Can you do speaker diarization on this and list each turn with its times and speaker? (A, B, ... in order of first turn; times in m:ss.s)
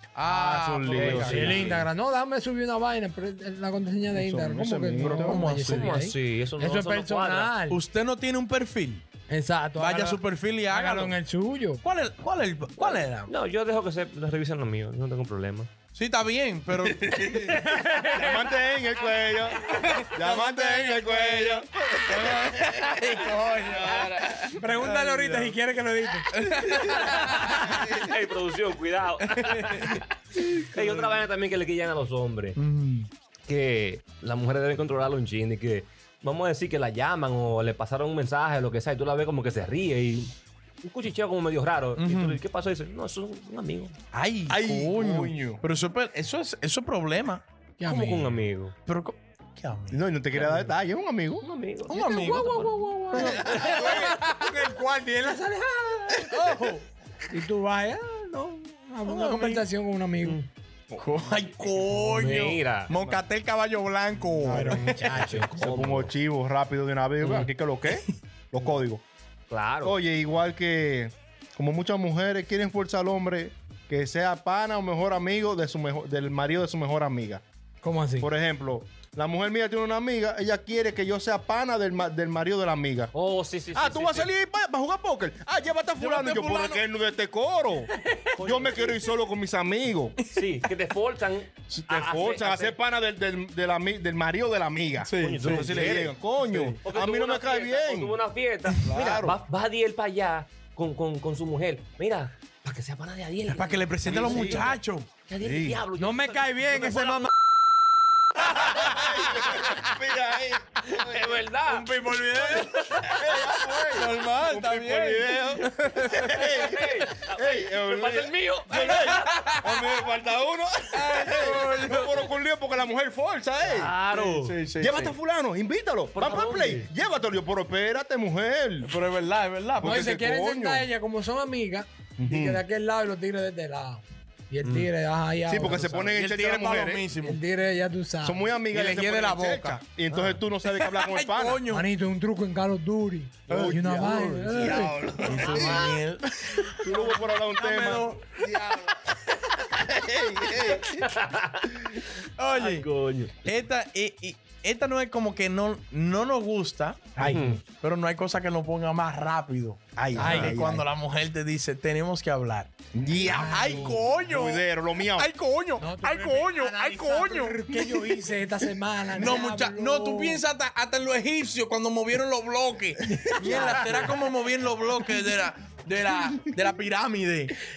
0:00.1-0:01.8 A
0:00.2-0:01.8 B
0:00.9-0:01.8 C
0:01.2-0:07.8 D
0:04.1-0:05.5 B
0:05.0-0:06.0 A
0:05.6-0:07.5 C
0:07.7-0:09.0 A
0:09.3-0:11.8 D
0:09.8-0:11.2 A
0:11.8-0:13.3 A
0:12.8-0:15.7 C
0:15.9-0:17.6 A
0:16.8-0:17.6 B
0:17.5-0:18.4 D
0:18.1-0:22.8 B
0:19.6-0:25.6 A
0:23.7-0:24.0 B
0:23.7-0:24.0 C
0:24.5-0:26.3 D
0:26.3-0:28.0 A
0:26.9-0:27.8 D
0:27.6-0:32.6 C
0:29.2-0:31.2 A
0:32.6-0:33.1 A
0:33.5-0:43.9 C
0:42.0-0:42.4 A
0:44.1-0:47.4 A
0:44.5-0:45.6 B
0:47.8-0:48.3 D
0:47.8-0:48.7 C
0:48.8-0:50.0 A
0:49.9-0:51.5 B
0:50.3-0:50.8 C
0:51.4-0:54.4 C
0:51.9-0:54.1 A
0:52.0-0:56.4 D
0:56.2-0:56.9 A
0:57.2-1:00.4 D
0:59.0-0:59.6 A
1:01.0-1:05.2 A
1:01.9-1:03.0 C
1:04.3-1:04.9 B
1:04.4-1:05.5 D
1:05.0-1:06.1 C
1:05.5-1:09.0 B
1:07.2-1:07.5 C
1:09.5-1:10.0 C
1:09.8-1:17.4 B
1:17.8-1:18.3 D
1:18.2-1:23.1 B
1:23.1-1:24.3 C
1:23.7-1:30.2 B
1:26.0-1:26.8 A
1:28.4-1:29.2 C
1:30.3-1:32.8 C
1:31.7-1:38.2 B
1:35.0-1:36.8 A
1:35.2-1:36.1 C
1:36.8-1:47.3 C
1:38.8-1:39.4 B
1:43.5-1:45.1 A
1:44.0-1:44.7 B
1:45.4-1:45.8 B
1:46.0-1:47.3 D
1:48.4-2:03.9 B
1:48.5-1:49.0 C
1:50.8-1:51.9 C
1:51.9-1:53.2 A
1:52.8-1:53.3 C
1:53.9-1:56.6 A
1:56.5-1:59.4 C
1:58.7-1:59.8 A
2:00.9-2:02.3 A
2:03.6-2:04.6 C
2:04.1-2:05.1 A
2:04.8-2:08.9 B
2:06.1-2:06.9 C
2:08.8-2:10.1 A
2:09.8-2:10.9 B
2:09.8-2:15.9 D
2:12.2-2:12.6 B
2:14.6-2:14.9 A
2:15.5-2:17.0 B
2:15.6-2:17.4 A
2:17.2-2:18.5 D
2:18.2-2:21.6 B
2:18.7-2:21.9 A
2:21.7-2:25.0 D
2:23.5-2:26.0 B
2:23.5-2:26.8 A
2:25.5-2:25.9 C
2:26.7-2:29.0 B
2:26.9-2:28.2 D
2:29.7-2:31.0 B
2:30.7-2:33.4 C
2:32.4-2:32.9 A
2:33.4-2:37.1 A
2:37.2-2:37.5 B
2:37.2-2:37.6 C
2:37.7-2:42.7 A
2:40.0-2:40.8 B
2:40.2-2:40.6 D
2:42.9-2:45.3 B
2:43.2-2:44.0 D
2:43.4-2:48.2 A
2:45.8-2:50.4 D
2:49.1-2:57.6 A
2:53.1-2:54.1 D
2:53.4-2:54.1 B